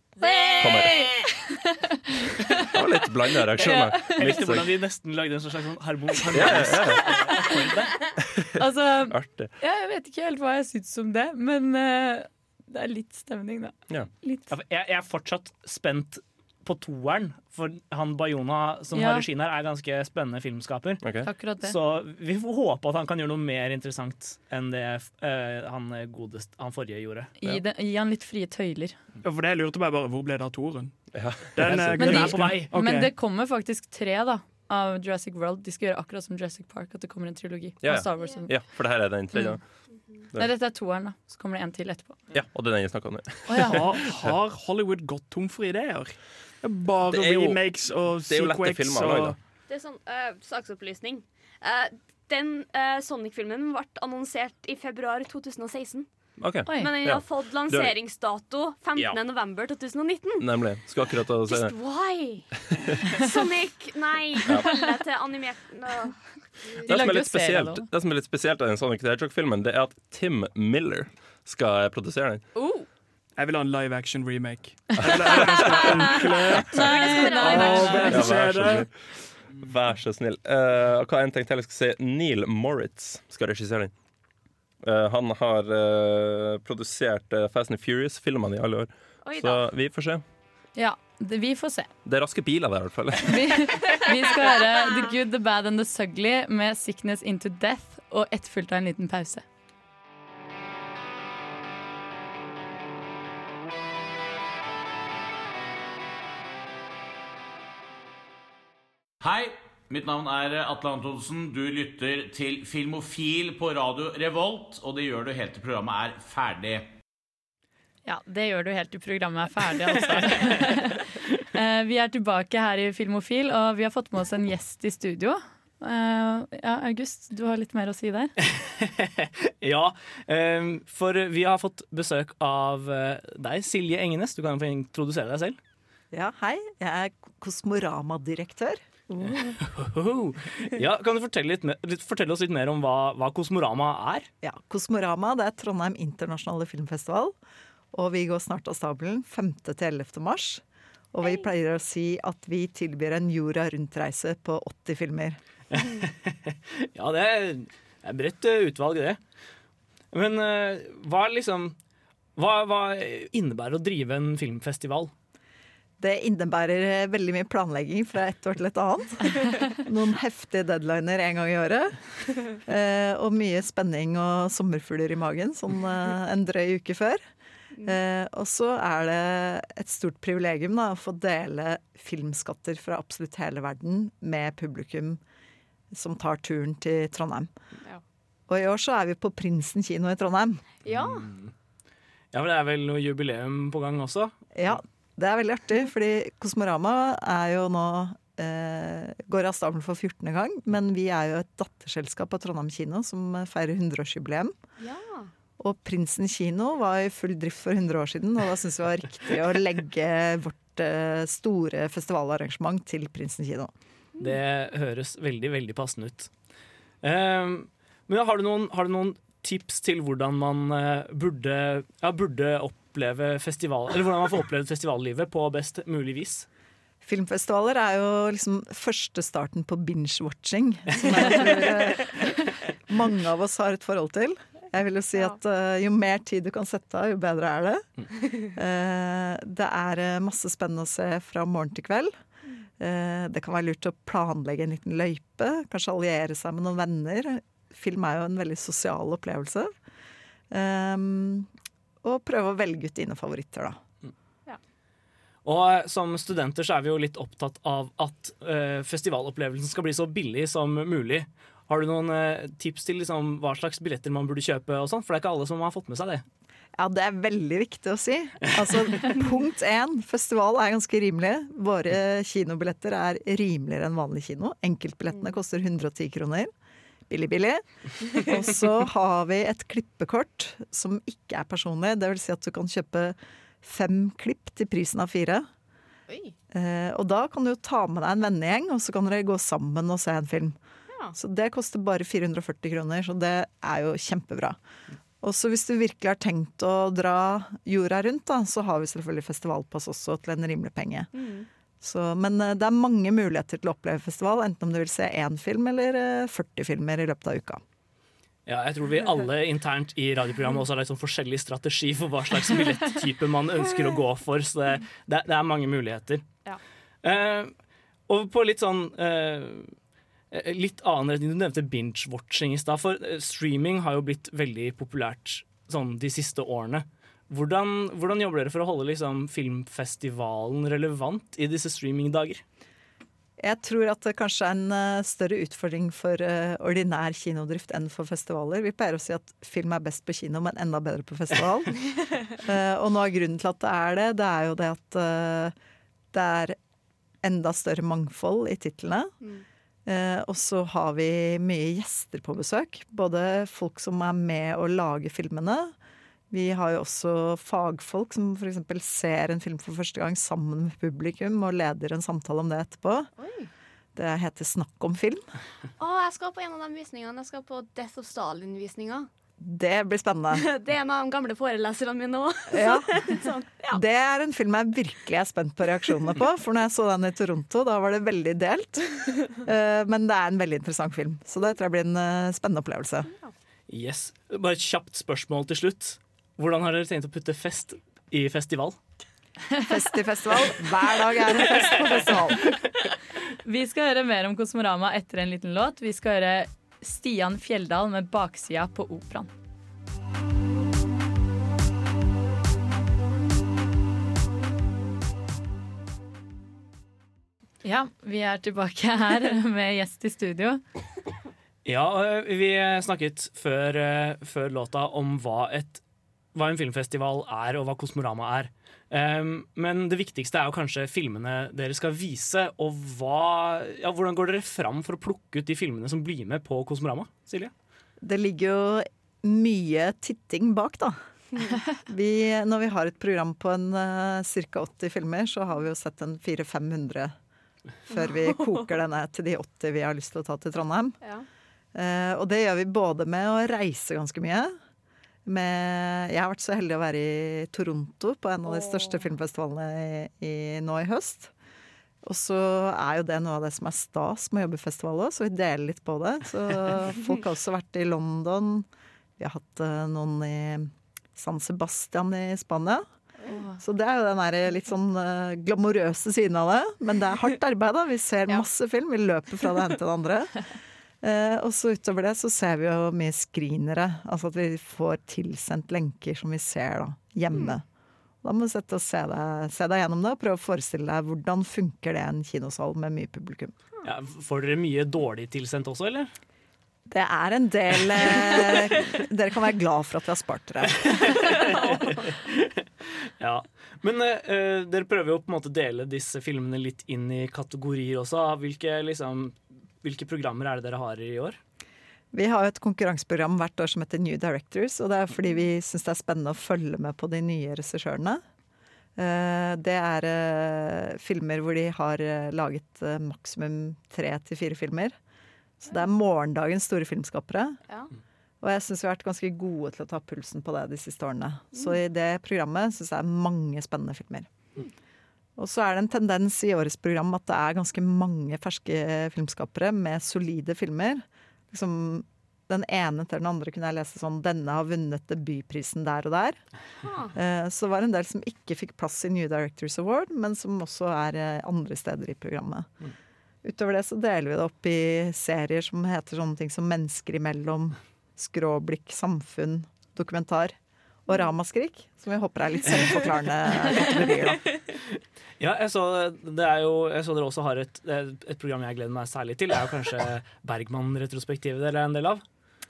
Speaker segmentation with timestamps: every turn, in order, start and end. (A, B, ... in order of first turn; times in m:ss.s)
0:00.2-0:01.3 A
0:00.2-0:01.9 B
0:00.6-0:01.2 C
0:02.6-0:04.7 C
0:03.6-0:04.4 B
0:04.2-0:08.1 D
0:06.3-0:07.4 C
0:08.4-0:09.5 C
0:08.6-0:14.5 B
0:14.5-0:21.0 D
0:18.9-0:19.2 B
0:21.0-0:21.3 C
0:21.2-0:21.8 B
0:21.6-0:27.3 D
0:27.4-0:29.0 B
0:29.2-0:33.1 E
0:31.1-0:32.5 C
0:32.0-0:38.7 B
0:32.4-0:32.7 D
0:37.8-0:39.8 C
0:38.2-0:38.5 A
0:39.9-0:40.3 A
0:40.3-0:42.2 B
0:42.3-0:44.2 C
0:43.5-0:43.8 B
0:43.6-0:49.4 E
0:47.1-0:49.4 C
0:49.7-0:56.1 A
0:56.4-0:58.0 C
0:56.7-0:56.9 B
0:56.7-1:00.4 A
1:00.4-1:01.8 C
1:01.5-1:02.5 A
1:03.2-1:06.2 A
1:04.5-1:04.8 C
1:06.8-1:12.5 C
1:06.8-1:07.9 B
1:12.5-1:12.9 A
1:13.4-1:18.9 E
1:15.0-1:15.7 C
1:15.7-1:18.3 A
1:16.7-1:18.3 B
1:18.1-1:23.9 C
1:24.8-1:30.2 C
1:29.2-1:29.7 A
1:30.8-1:31.9 B
1:32.0-1:33.7 C
1:33.3-1:39.4 B
1:49.2-1:56.9 F
1:58.1-2:08.3 B
2:08.7-2:15.6 D
2:16.1-2:18.8 G
2:19.6-2:24.3 D
2:24.4-2:27.4 G
2:27.9-2:30.6 G
2:31.1-2:35.4 G
2:31.2-2:31.5 A
2:35.7-2:39.2 D
2:40.1-2:41.8 D
2:42.4-2:45.1 D
2:46.0-2:52.0 G
2:52.5-2:57.2 G
2:57.7-2:58.0 A
2:57.8-3:05.2 G
3:05.9-3:07.5 G
3:08.5-3:10.6 G
3:10.8-3:11.3 A
3:10.9-3:11.5 D
3:12.3-3:14.4 D
3:14.6-3:24.6 G
3:24.8-3:25.3 A
3:25.6-3:33.7 G
3:34.2-3:36.3 D
3:37.0-3:46.5 D
3:47.0-3:52.2 G
3:51.0-3:52.2 D
3:52.9-3:57.8 G
3:58.5-4:02.1 G
4:02.8-4:09.7 G
4:10.5-4:11.5 G
4:12.0-4:13.8 G
4:15.4-4:26.2 D
4:26.8-4:36.5 G
4:37.1-4:45.5 G
4:46.1-4:46.3 A
4:46.5-4:50.6 G
4:51.1-4:54.6 G
4:55.2-5:01.1 G
5:01.1-5:01.5 A
5:01.8-5:07.6 G
5:08.5-5:16.2 D
5:17.0-5:17.5 D
5:18.1-5:19.7 D
5:20.3-5:32.4 D
5:33.4-5:41.8 G
5:42.4-5:45.5 G
5:46.1-5:46.6 G
5:47.2-5:49.1 G
5:49.9-5:55.8 G
5:56.3-6:03.1 G
6:03.2-6:03.5 A
6:04.0-6:05.2 G
6:05.8-6:09.1 A
6:09.4-6:10.4 G
6:10.3-6:13.8 A
6:12.5-6:23.1 G
6:23.7-6:28.8 D
6:29.7-6:32.4 G
6:33.4-6:39.3 B
6:47.6-6:50.6 B
6:51.6-6:55.8 D
6:56.3-7:07.5 D
7:08.0-7:11.0 G
7:11.9-7:17.1 G
7:17.9-7:21.0 G
7:17.9-7:18.4 A
7:21.7-7:24.6 G
7:25.3-7:31.3 G
7:28.5-7:29.1 A
7:32.0-7:38.7 G
7:39.2-7:42.9 G
7:43.2-7:43.6 A
7:43.6-7:50.4 G
7:51.0-7:57.6 G
7:58.2-8:03.5 G
8:03.8-8:06.1 D
8:06.9-8:10.8 G
8:10.8-8:12.5 D
8:13.2-8:21.4 D
8:22.1-8:28.2 G
8:29.0-8:35.0 G
8:35.6-8:37.6 G
8:38.4-8:44.3 G
8:45.4-8:56.4 G
8:56.8-8:57.2 A
8:57.1-9:02.7 G
9:03.4-9:10.6 G
9:11.1-9:14.5 G
9:15.4-9:22.2 D